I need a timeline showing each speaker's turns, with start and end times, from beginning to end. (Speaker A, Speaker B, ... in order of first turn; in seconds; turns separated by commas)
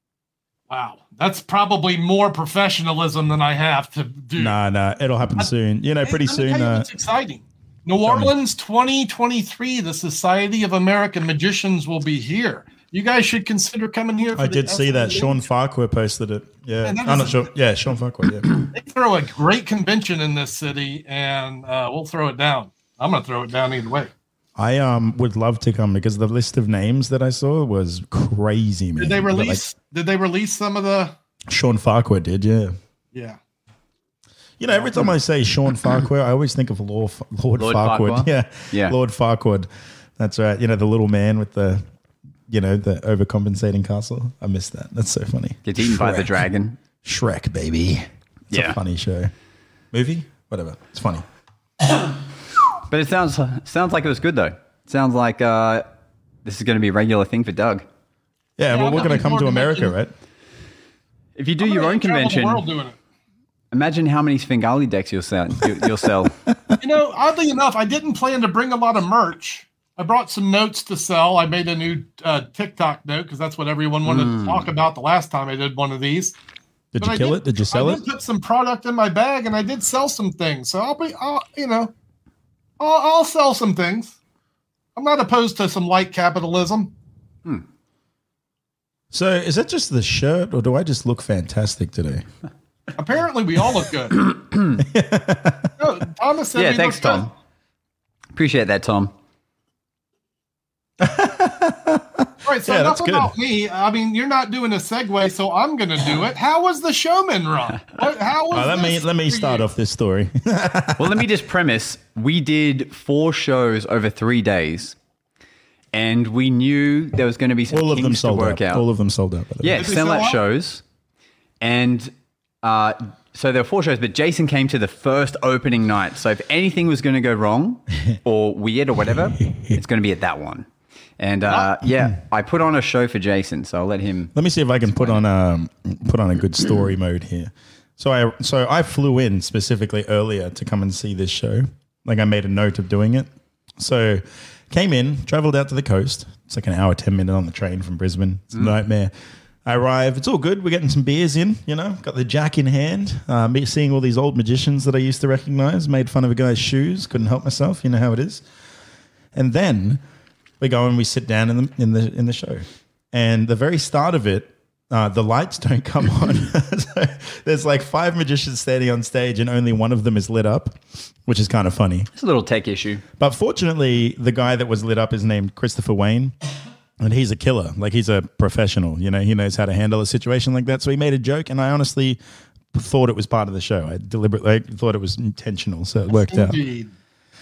Speaker A: 0.7-4.5, Speaker B: 4.4-6.9, Speaker A: 6.0-15.5, Speaker B: 8.0-8.3, Speaker B: 14.4-18.5, Speaker A: 16.8-17.5, Speaker A: 18.7-24.1, Speaker B: 24.6-29.6, Speaker A: 29.0-31.1, Speaker B: 31.5-32.8, Speaker A: 33.1-33.4, Speaker B: 34.6-39.7, Speaker C: 37.6-39.0, Speaker B: 40.2-41.8, Speaker B: 42.5-46.4, Speaker C: 45.6-46.8, Speaker B: 47.0-49.3, Speaker C: 48.5-48.8, Speaker B: 49.9-51.2, Speaker C: 52.9-55.9, Speaker C: 56.4-57.9, Speaker B: 58.6-60.1, Speaker A: 58.7-59.9, Speaker C: 61.4-62.6, Speaker A: 61.6-63.0, Speaker C: 63.7-66.4, Speaker A: 66.8-76.3, Speaker C: 74.1-74.7, Speaker B: 76.9-78.0, Speaker A: 77.0-81.9, Speaker A: 82.8-84.2, Speaker A: 85.0-86.9, Speaker B: 89.1-92.3, Speaker A: 93.0-94.2, Speaker C: 94.2-94.8, Speaker B: 94.8-95.8, Speaker A: 95.8-97.3, Speaker C: 96.6-97.3, Speaker C: 98.3-99.1, Speaker B: 101.0-103.3, Speaker A: 102.4-109.7, Speaker B: 108.5-111.2, Speaker C: 111.0-115.0, Speaker C: 115.9-118.8, Speaker B: 117.7-119.8, Speaker C: 119.6-120.8, Speaker A: 119.8-120.4, Speaker C: 121.6-122.1, Speaker C: 122.6-130.7, Speaker B: 129.3-129.8, Speaker C: 131.2-134.3, Speaker A: 131.5-131.7, Speaker B: 134.3-149.1, Speaker C: 134.9-135.2, Speaker B: 149.7-158.4, Speaker B: 159.3-160.0, Speaker B: 160.6-172.1, Speaker C: 172.2-173.0, Speaker B: 173.2-176.3, Speaker B: 177.0-182.2, Speaker B: 182.7-186.6, Speaker A: 186.2-186.9